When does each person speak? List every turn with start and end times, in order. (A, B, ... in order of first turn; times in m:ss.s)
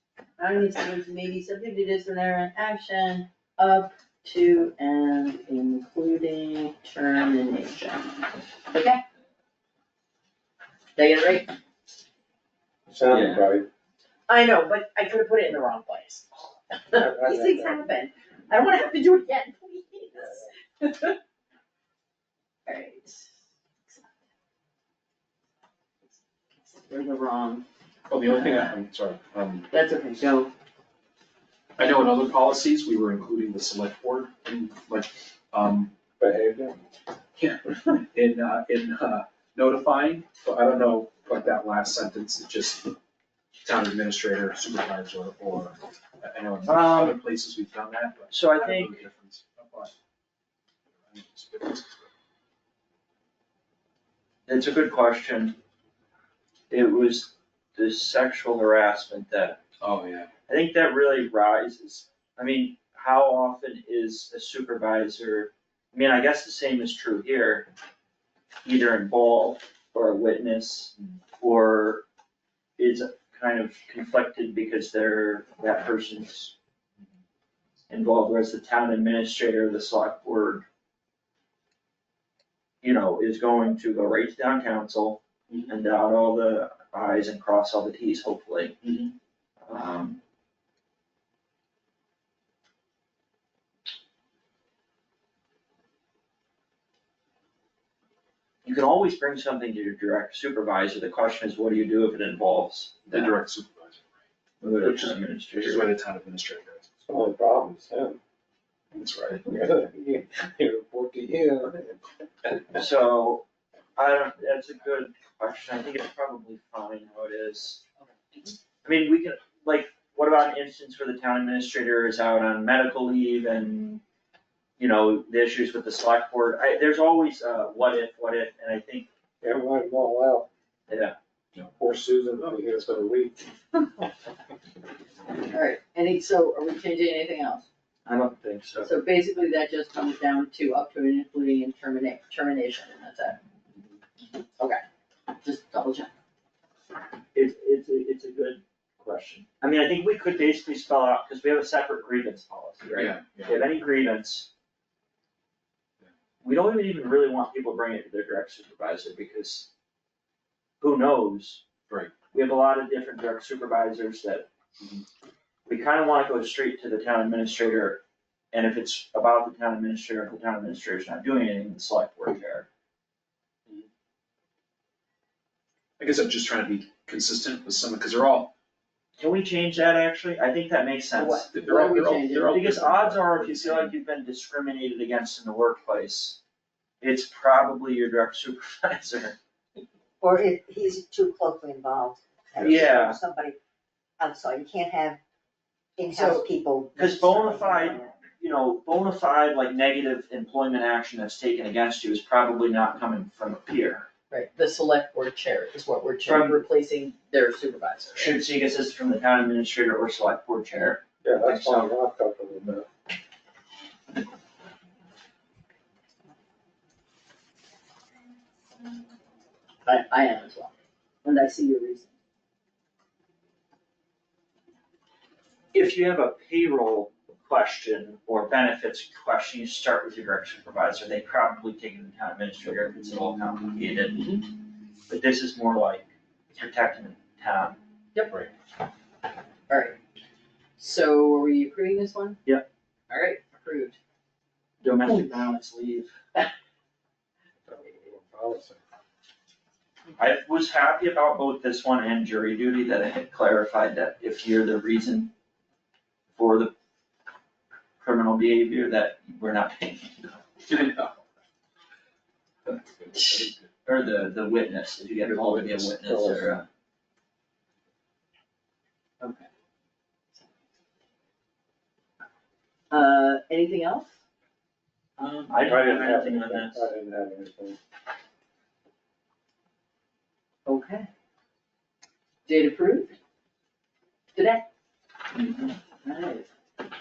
0:00.4-0:09.0 A
0:11.0-0:11.5 A
0:12.9-0:13.7 B
0:13.1-0:13.4 C
0:14.3-0:21.2 A
0:17.0-0:17.8 B
0:22.6-0:23.3 A
0:26.7-0:27.6 A
0:28.1-0:29.7 D
0:29.7-0:30.5 A
0:31.8-0:35.9 D
0:36.2-0:36.8 B
0:37.4-0:43.0 D
0:43.6-0:49.9 D
0:46.6-0:47.2 C
0:48.3-0:49.0 C
0:51.0-0:51.9 D
0:54.5-0:55.6 C
0:56.7-0:59.6 C
0:59.8-1:00.3 D
1:00.5-1:07.7 C
1:08.6-1:12.0 C
1:12.8-1:16.5 C
1:17.9-1:20.6 C
1:22.8-1:28.8 C
1:25.5-1:25.7 D
1:28.8-1:29.1 D
1:29.7-1:30.2 C
1:38.6-1:43.3 C
1:43.0-1:44.0 D
1:44.6-1:45.9 C
1:44.8-1:46.9 D
1:47.0-1:48.2 B
1:48.9-1:49.5 D
1:49.5-1:52.0 B
1:52.7-1:53.4 C
1:54.0-1:57.8 C
1:58.8-2:04.0 C
2:04.8-2:09.1 C
2:09.4-2:10.5 B
2:10.9-2:11.2 C
2:11.7-2:13.4 B
2:15.4-2:17.6 A
2:18.0-2:18.9 C
2:18.8-2:23.4 A
2:25.4-2:26.1 A
2:27.3-2:34.5 C
2:32.9-2:33.6 D
2:36.4-2:39.7 C
2:40.8-2:41.6 C
2:42.3-2:44.5 C
2:45.7-2:48.0 C
2:48.5-2:52.7 C
2:56.0-2:58.5 D
2:59.2-3:01.4 C
3:01.1-3:02.9 A
3:01.4-3:03.9 D
3:02.5-3:06.4 C
3:07.0-3:09.4 C
3:10.2-3:13.6 E
3:12.6-3:13.2 C
3:14.2-3:15.2 E
3:16.0-3:18.1 E
3:16.1-3:16.4 A
3:17.0-3:24.1 C
3:24.3-3:28.4 A
3:26.2-3:26.6 C
3:28.2-3:31.9 C
3:31.2-3:32.8 B
3:39.8-3:40.7 A
3:41.2-3:42.1 A
3:45.7-3:54.4 C
3:55.1-3:57.8 C
3:59.7-4:00.0 A
4:00.8-4:02.4 A
4:03.1-4:04.0 A
4:04.8-4:06.2 C
4:07.6-4:08.8 B
4:10.2-4:15.3 C
4:16.3-4:16.7 C
4:18.0-4:20.4 C
4:20.7-4:21.2 D
4:22.7-4:23.6 D
4:23.8-4:26.6 C
4:25.3-4:26.5 B
4:29.2-4:29.5 A
4:32.9-4:34.1 A
4:35.2-4:36.8 C
4:35.6-4:37.8 B
4:40.6-4:41.1 A
4:42.4-4:43.2 A
4:44.3-4:44.6 A
4:45.3-4:45.8 C
4:46.0-4:46.5 A